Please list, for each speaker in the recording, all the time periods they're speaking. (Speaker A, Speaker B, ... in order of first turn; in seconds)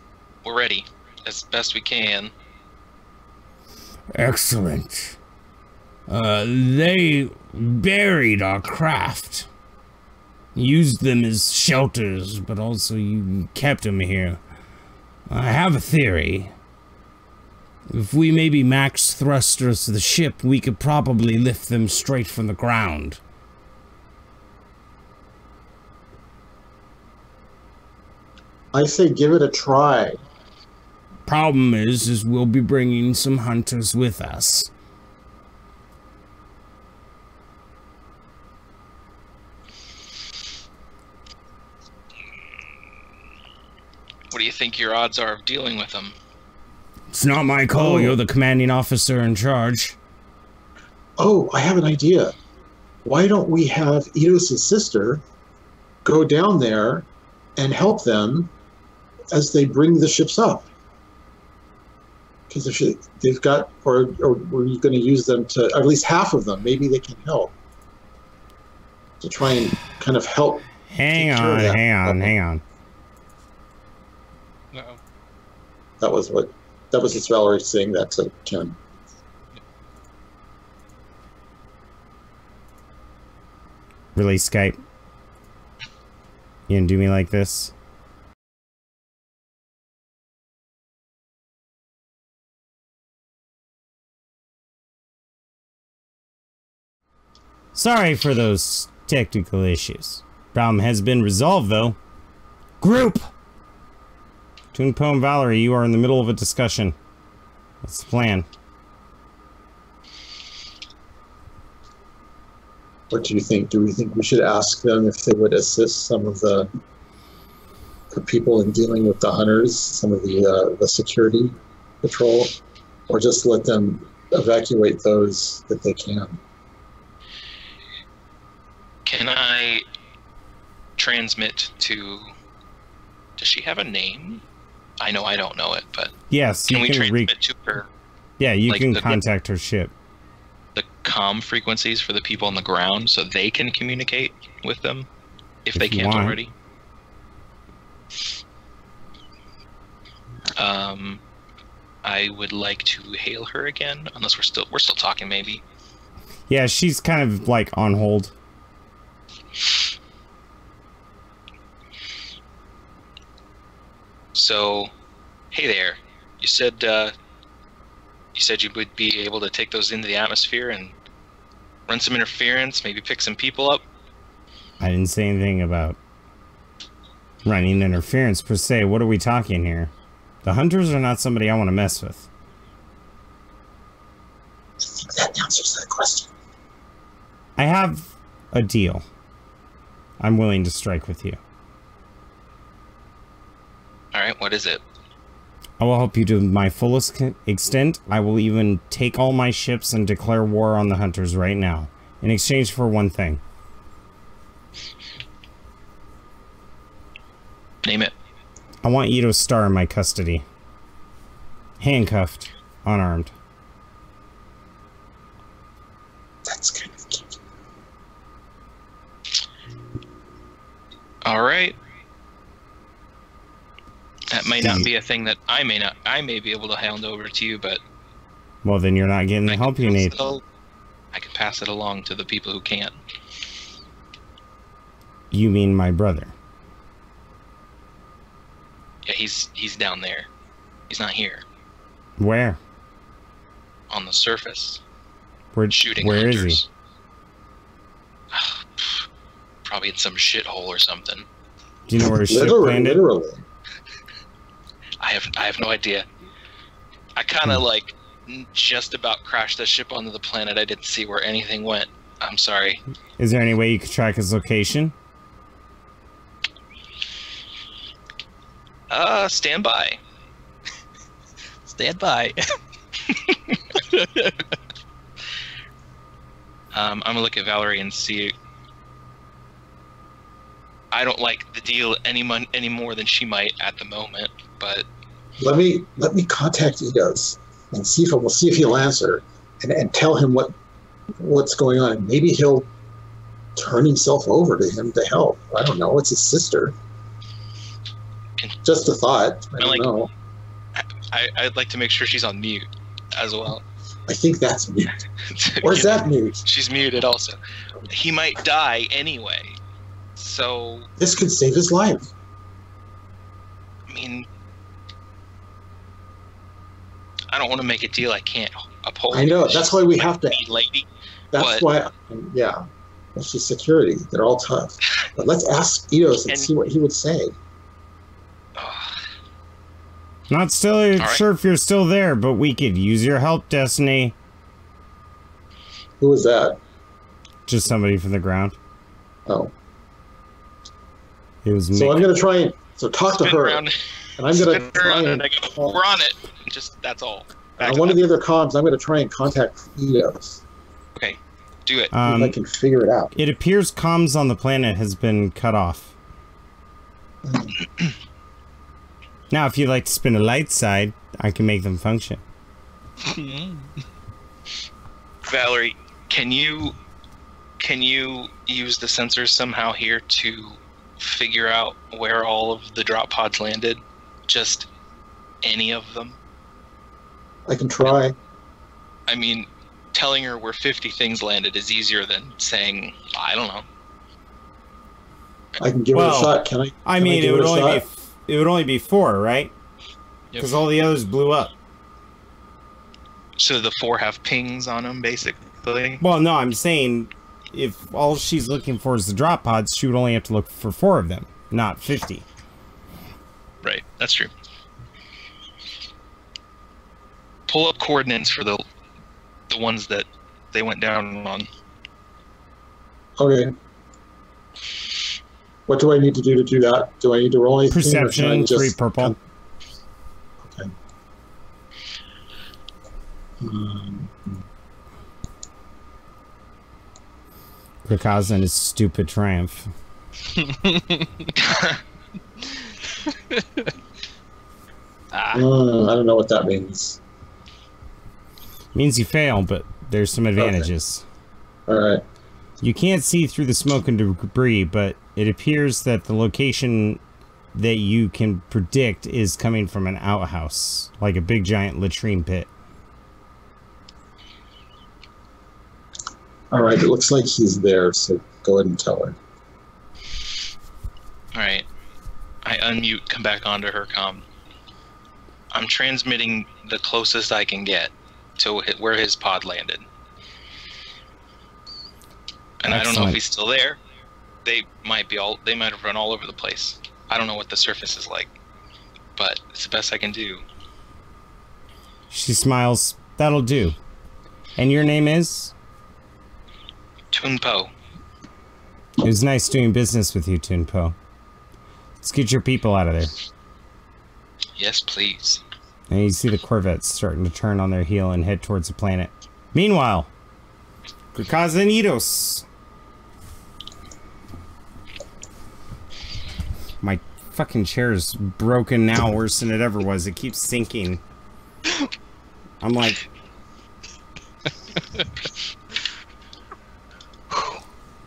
Speaker A: 0.4-2.3, 44.3-46.1, 129.1-129.8, 131.0-132.3, 133.4-134.4, 135.0-136.1, 136.7-137.9, 138.7-139.2, 140.8-145.1, 145.7-146.5, 150.6-151.2, 152.0-155.6, 164.3-164.9, 165.5-167.1, 168.3-170.9, 171.9-173.8, 194.1-194.8, 207.8-208.1, 221.2-221.8, 224.3-227.8, 229.5-230.4, 231.1-233.0, 239.1-240.3, 240.9-241.4, 243.9-244.8, 245.7-246.7, 248.3-249.1, 249.7-251.3, 255.0-256.1, 257.2-262.8, 268.9-270.0, 276.7-278.3, 280.9-284.9, 299.6-299.9, 300.8-303.6, 305.3-307.4, 307.9-309.6, 310.2-310.9, 313.9-314.3, 317.3-321.7, 328.6-329.0, 331.0-331.2, 343.2-348.0, 350.9-351.9, 365.2-366.8, 367.6-374.7, 375.4-376.2, 379.1-383.6, 393.4-396.0, 403.6-404.3, 407.5-408.6, 409.5-411.5, 431.4-431.8, 461.4-461.7, 462.4-464.2, 465.5-469.9, 472.6-473.8, 474.4-478.3, 479.2-480.4, 487.1-487.7, 494.6-495.4
Speaker B: 4.1-5.2, 6.1-9.5, 10.6-14.4, 15.3-16.5, 17.9-23.2, 31.3-34.7, 47.1-50.0, 70.9-72.6, 84.2-84.8, 86.7-87.7, 97.7-102.0, 102.8-103.3, 104.7-107.0, 107.8-108.5, 136.3-137.3, 138.4-139.9, 145.8-146.4, 156.5-158.3, 174.8-176.0, 177.4-179.9, 180.4-182.3, 187.6-189.1, 190.2-191.4, 195.8-203.4, 208.8-210.4, 211.8-213.3, 228.6-230.1, 235.3-236.3, 242.2-242.6, 245.6-246.6, 251.9-253.0, 263.2-264.9, 330.3-334.1, 337.5-338.6, 341.4-342.1, 351.9-352.4, 353.1-355.9, 359.3-362.2, 385.9-389.5, 390.4-391.5, 396.0-402.3, 417.7-419.1, 427.9-429.7, 438.7-441.1, 442.6-447.0, 447.5-452.5, 472.7-473.2, 482.1-483.8, 484.6-485.5, 489.0-491.0, 492.0-493.1, 495.9-500.1, 501.1-502.4, 506.8-511.0, 512.6-513.0
Speaker C: 28.7-30.2, 47.7-48.2, 51.2-52.3, 53.0-55.2, 56.0-57.1, 57.6-58.5, 59.3-60.7, 62.5-67.5, 69.2-72.3, 76.0-78.8, 113.1-116.7, 118.1-122.5, 123.1-126.4, 184.9-186.3, 216.5-217.4, 224.6-224.9, 252.0-253.4, 285.4-290.5, 291.2-292.7, 293.6-296.8, 298.6-300.1, 304.1-305.0, 305.6-306.4, 311.0-312.1, 319.1-320.4, 321.3-322.6, 323.2-327.4, 336.0-336.6, 339.3-339.5, 341.7-343.7, 344.2-345.8, 347.6-350.4, 352.0-353.1, 357.3-357.5, 377.5-378.1, 385.6-387.8, 413.2-413.5, 415.7-419.2, 420.4-420.7, 423.4-424.4, 435.3-437.0, 440.4-440.7, 441.7-442.0, 456.5-459.2
Speaker D: 74.7-75.0, 271.7-272.4, 273.9-274.4, 363.1-363.5, 390.3-390.6, 430.4-431.3, 432.4-433.7, 435.1-435.5